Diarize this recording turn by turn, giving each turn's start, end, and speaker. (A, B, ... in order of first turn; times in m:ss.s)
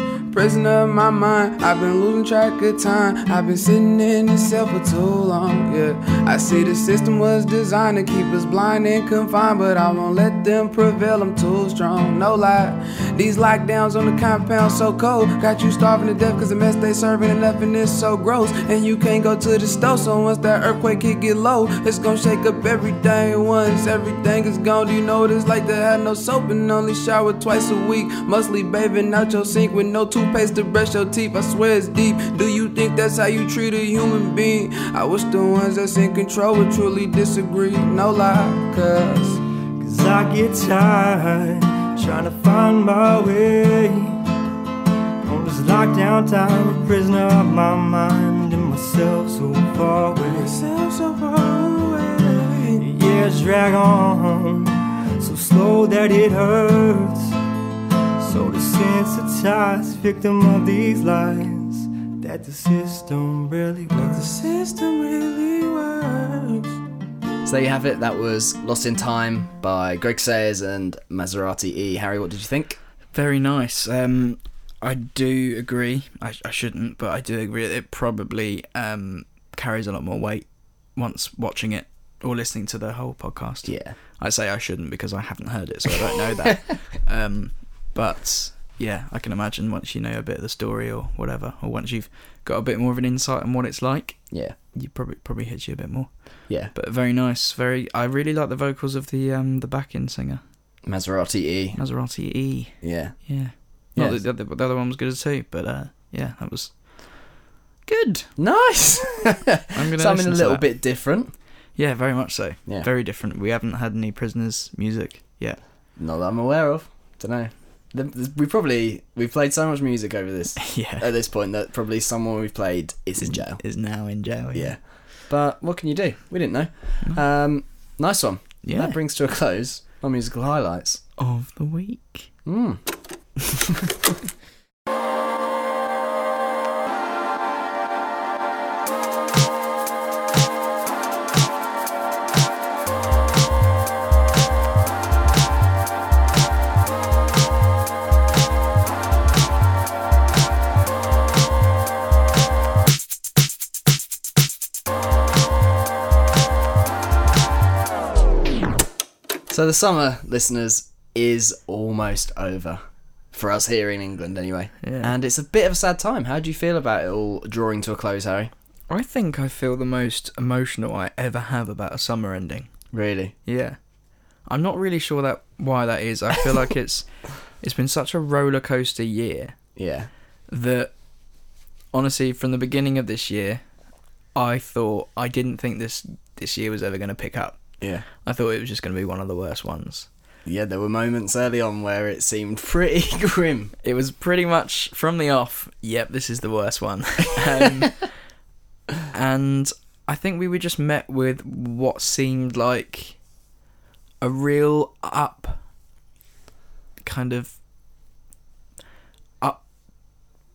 0:00.3-0:39.4 A
0:39.8-0:44.2 B
0:45.2-0:50.5 B
0:50.2-0:52.8 A
0:52.8-0:57.3 B
0:58.2-1:04.4 B
1:04.0-1:06.7 A
1:07.4-1:12.8 C
1:13.1-1:40.4 D
1:23.6-1:24.0 C
1:34.3-1:34.6 C
1:36.5-1:36.7 C
1:40.8-1:41.8 C
1:41.7-1:48.3 D
1:42.8-1:44.2 C
1:48.4-1:51.3 C
1:49.7-1:51.0 D
1:51.7-1:55.6 D
1:56.0-2:03.6 C
2:00.6-2:01.1 D
2:03.2-2:04.8 D
2:04.5-2:11.0 C
2:08.6-2:09.0 D
2:11.2-2:12.4 D
2:12.4-2:13.3 C
2:39.5-2:48.5 C
2:44.8-2:45.1 D
2:48.9-2:52.9 D
2:52.9-2:53.3 C
2:53.4-2:59.8 D
2:59.8-3:00.1 C
3:00.5-3:10.1 D
3:07.8-3:08.0 C
3:10.4-3:13.7 C
3:13.8-3:18.2 D
3:19.1-3:23.3 D
3:24.2-3:25.7 D
3:27.0-3:27.6 D
3:29.4-3:30.2 D